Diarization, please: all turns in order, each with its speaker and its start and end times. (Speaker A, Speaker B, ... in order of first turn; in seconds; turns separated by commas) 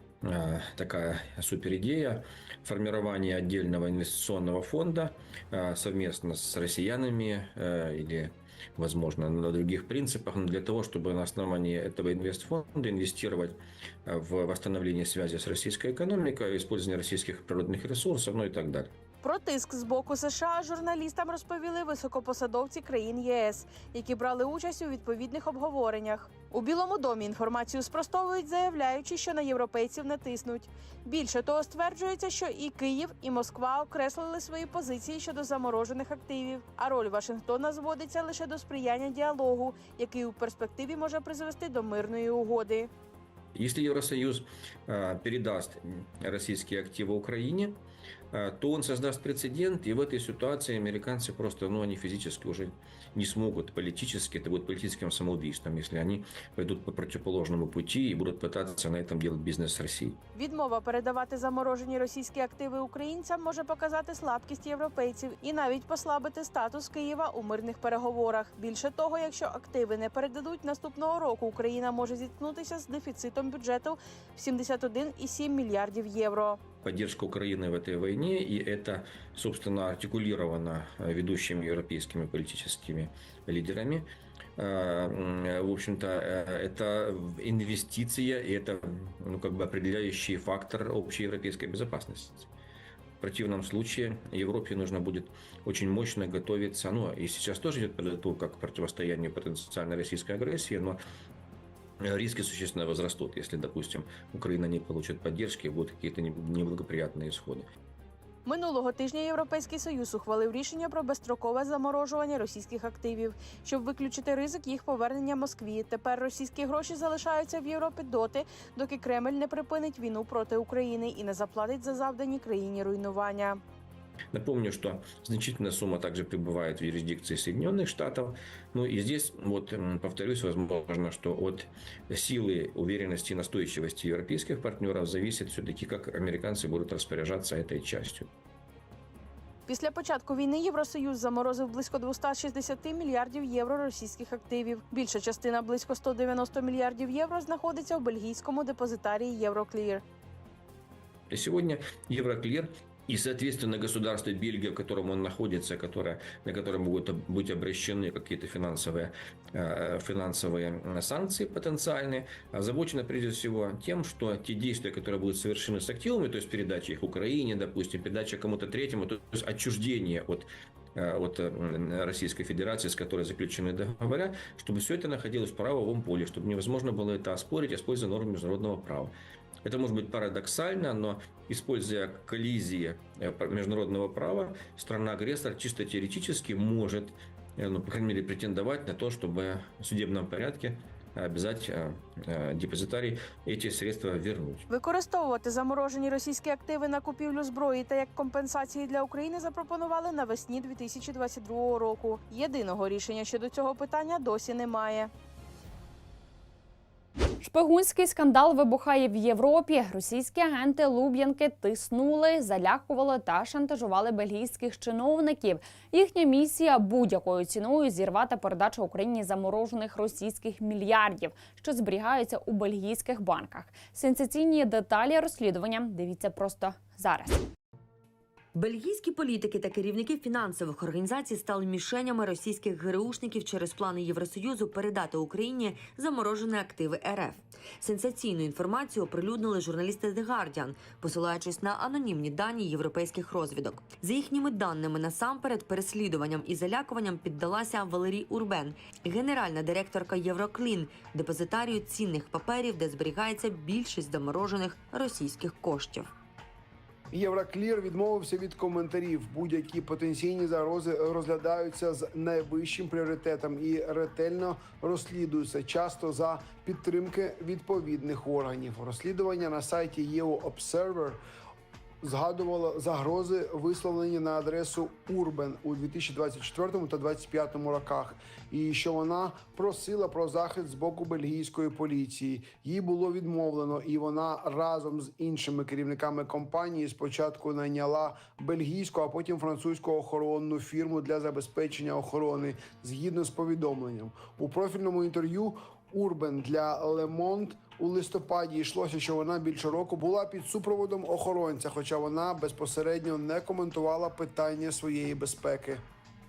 Speaker A: 0.2-18.9, Speaker B: 19.2-42.9, Speaker A: 43.5-47.8, Speaker A: 48.3-60.2, Speaker B: 60.3-76.6, Speaker A: 76.8-84.1, Speaker A: 84.6-92.5, Speaker A: 93.2-101.0, Speaker A: 102.0-107.7, Speaker B: 108.5-123.6, Speaker A: 124.3-138.3, Speaker B: 139.7-150.0, Speaker A: 151.3-194.6, Speaker B: 194.7-205.1, Speaker C: 207.4-227.4, Speaker D: 228.6-256.1, Speaker E: 257.1-271.2, Speaker E: 272.0-305.8